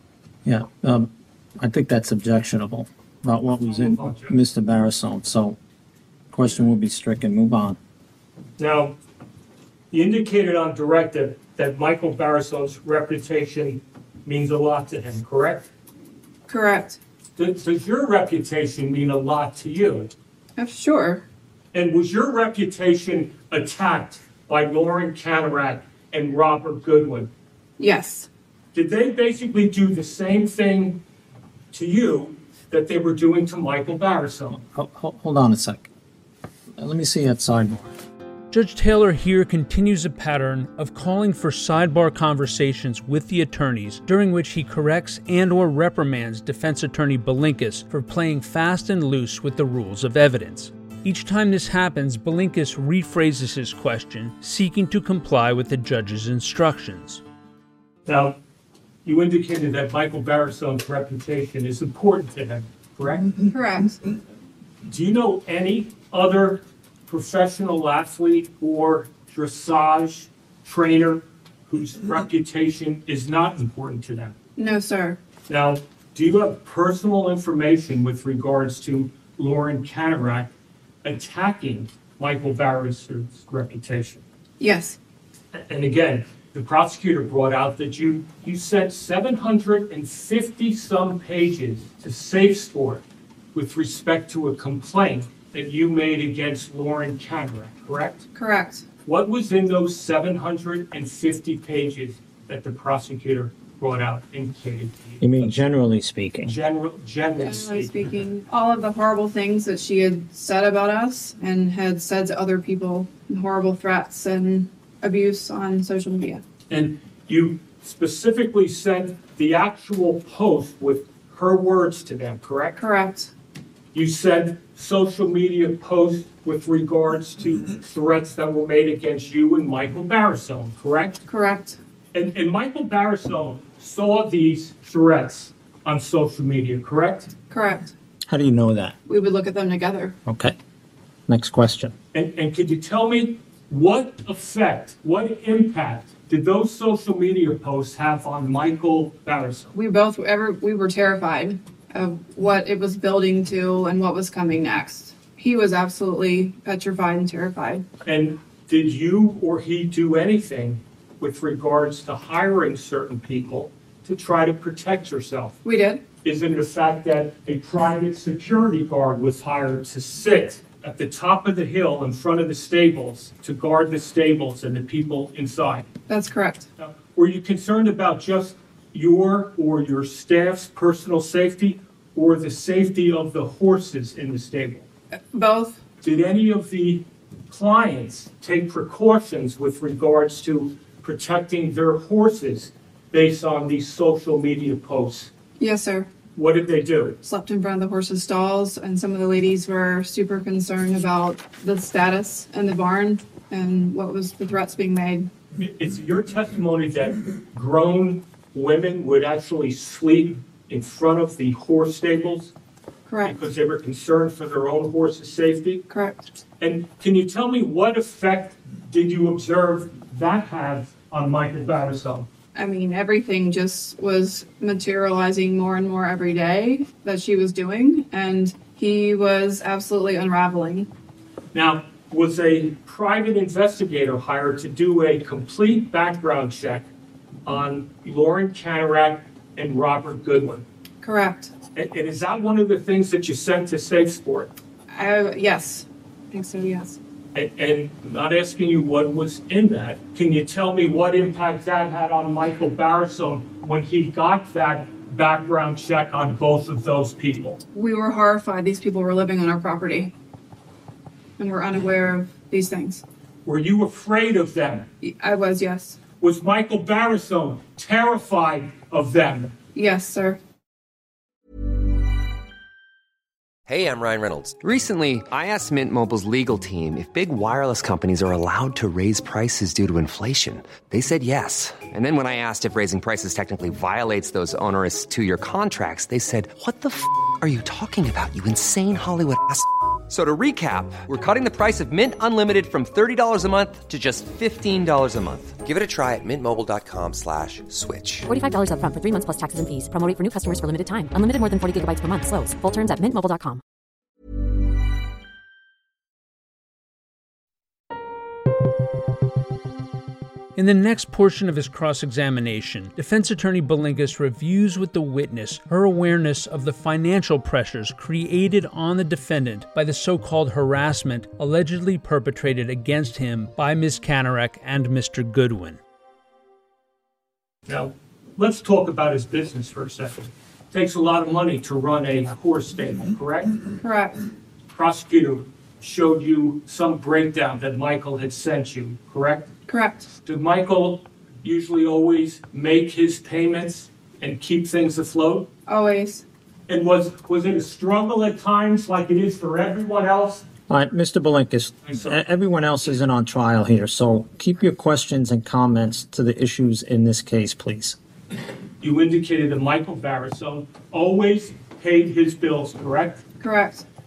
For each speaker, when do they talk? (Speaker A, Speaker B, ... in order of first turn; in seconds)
Speaker A: 0.4-5.6, 6.3-7.8, 34.7-35.9, 36.8-37.9, 105.2-106.6, 138.3-138.9, 140.2-140.5, 141.3-141.9, 350.7-358.0
Speaker B: 3.6-4.4, 8.6-8.9, 9.9-15.7, 17.4-20.1, 21.7-27.3, 28.7-31.0, 31.7-34.6, 58.0-58.4, 59.0-63.4, 64.9-74.3, 75.5-80.5, 81.0-84.2, 85.5-93.0, 93.5-98.3, 99.0-105.5, 106.4-108.1, 116.7-122.8, 123.9-131.2, 132.1-137.3, 142.1-149.7, 158.0-165.6, 166.2-175.9, 176.8-184.9, 186.0-195.3, 196.3-197.2, 205.6-212.5, 213.2-215.8, 216.6-222.3, 231.5-236.9, 237.4-240.6, 241.7-244.5, 247.3-257.6, 263.4-264.9, 266.2-269.6, 327.7-333.6, 334.7-339.5, 340.2-345.5, 346.7-350.4, 351.9-352.1, 358.8-363.2
Speaker C: 16.5-17.0, 20.6-21.2, 27.8-28.3, 63.5-64.0, 74.6-75.2, 84.6-85.0, 98.3-98.8, 107.4-116.4, 122.8-123.3, 131.3-131.8, 137.5-137.9, 139.1-140.2, 149.7-157.8, 165.6-166.0, 176.1-176.7, 185.1-185.8, 195.6-196.1, 197.2-205.3, 213.1-213.4, 215.9-216.2, 222.5-230.9, 241.0-241.5, 244.9-247.0, 257.7-260.1, 261.4-263.0, 265.0-266.0, 269.7-270.4, 333.8-334.2, 339.7-340.1, 345.7-346.2, 363.4-363.8
Speaker D: 38.5-57.2, 310.6-325.8
Speaker E: 273.7-298.3
Speaker F: 298.3-303.6